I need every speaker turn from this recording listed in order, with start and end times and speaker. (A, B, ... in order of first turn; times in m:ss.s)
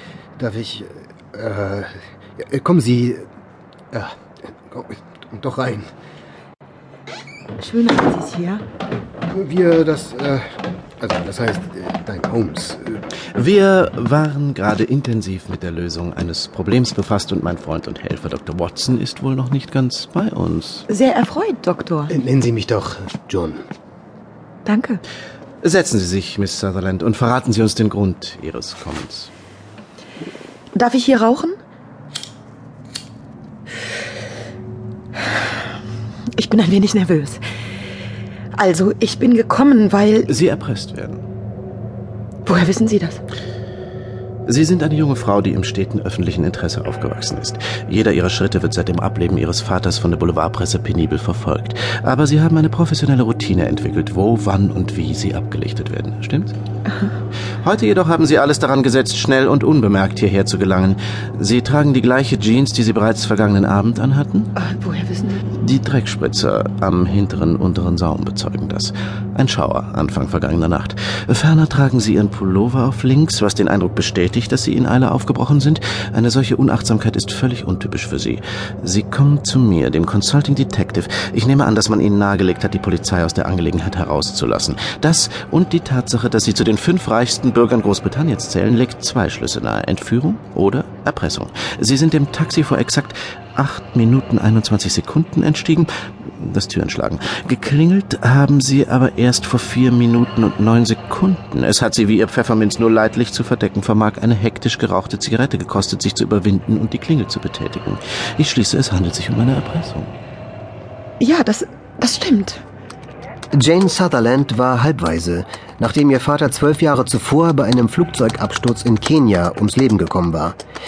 0:00.4-0:03.3 A
0:03.9-0:05.9 A
0:07.6-0:08.6 B
0:09.3-0:10.4 A
0:11.0-0:13.0 A
0:13.3-0:20.9 C
0:20.9-0:22.1 B
0:22.1-0:23.6 A
0:24.6-0:25.0 B
0:25.6-0:29.3 C
0:30.7-0:31.6 B
0:36.3-0:37.4 B
0:38.5-0:40.3 B
0:40.2-0:41.2 C
0:42.4-0:43.2 B
0:44.4-0:56.5 C
0:57.6-1:04.5 C
1:04.6-1:05.4 B
1:05.5-1:50.2 C
1:51.2-1:52.6 B
1:53.5-2:00.6 A